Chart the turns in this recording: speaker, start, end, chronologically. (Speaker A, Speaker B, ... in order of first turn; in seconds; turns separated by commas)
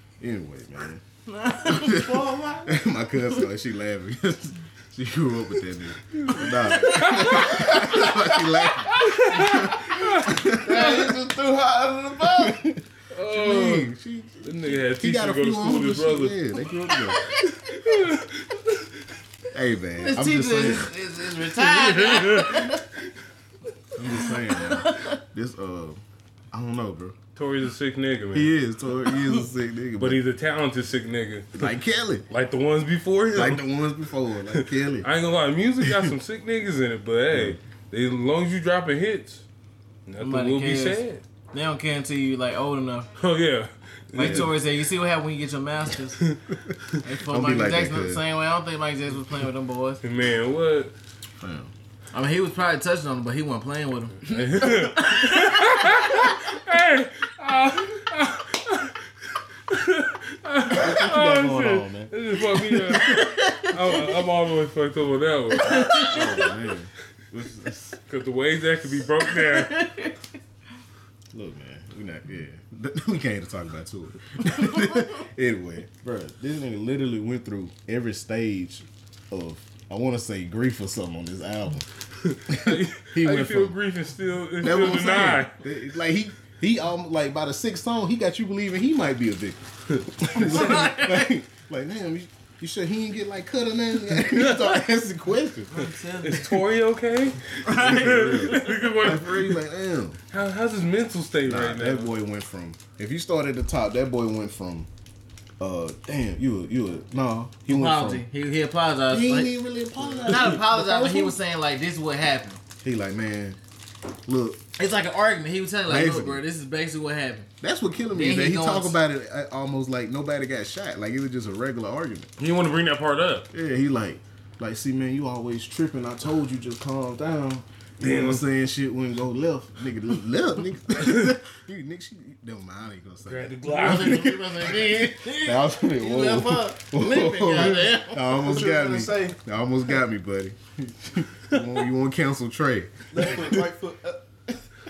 Speaker A: 0.2-1.0, Speaker B: 1.3-2.1, Speaker A: 1.6-11.2, Speaker C: 1.7-2.8, Speaker D: 6.1-7.8, Speaker B: 6.7-8.2, Speaker D: 9.0-10.6, Speaker C: 10.5-12.6, Speaker A: 12.2-17.4, Speaker D: 13.1-13.9, Speaker D: 14.4-16.5, Speaker B: 17.1-17.6, Speaker D: 17.5-18.9, Speaker A: 19.5-20.9, Speaker B: 20.0-22.8, Speaker D: 21.6-22.8, Speaker A: 23.9-26.0, Speaker B: 24.1-25.2, Speaker A: 26.5-27.2, Speaker D: 27.4-28.5, Speaker A: 28.3-30.2, Speaker D: 30.0-31.7, Speaker A: 31.6-32.3, Speaker D: 32.3-33.7, Speaker A: 33.3-35.1, Speaker D: 34.5-39.5, Speaker A: 35.8-36.1, Speaker A: 37.3-37.6, Speaker D: 40.1-41.2, Speaker B: 40.2-43.1, Speaker D: 43.2-44.6, Speaker B: 44.1-46.2, Speaker A: 44.2-44.5, Speaker B: 47.0-50.0, Speaker A: 47.3-48.2, Speaker D: 50.0-50.9, Speaker A: 51.4-51.7, Speaker B: 52.1-56.3, Speaker D: 54.2-59.0, Speaker D: 59.7-66.3, Speaker A: 60.7-62.1, Speaker B: 63.0-64.1, Speaker B: 65.6-66.5, Speaker A: 65.7-68.0, Speaker D: 68.1-69.8, Speaker B: 69.2-70.2, Speaker A: 71.3-81.9, Speaker D: 82.2-85.6, Speaker A: 82.5-83.8, Speaker A: 84.6-95.7, Speaker B: 90.4-91.3, Speaker D: 94.2-94.8, Speaker B: 95.7-96.6, Speaker D: 96.2-99.6, Speaker B: 97.7-98.9, Speaker A: 97.7-100.2, Speaker D: 100.3-102.1, Speaker A: 101.4-104.9, Speaker A: 105.6-108.3, Speaker B: 107.7-109.6, Speaker A: 109.1-111.4, Speaker D: 110.0-110.3, Speaker B: 110.3-112.6, Speaker A: 112.8-113.6, Speaker A: 114.3-114.6, Speaker B: 114.8-117.5, Speaker A: 115.9-116.4, Speaker A: 117.6-122.3, Speaker B: 118.1-119.0, Speaker D: 122.4-123.5, Speaker A: 123.5-143.7, Speaker D: 128.0-128.4, Speaker D: 131.0-131.3, Speaker D: 133.2-134.4, Speaker B: 133.7-138.3, Speaker C: 138.2-139.4, Speaker C: 143.1-144.6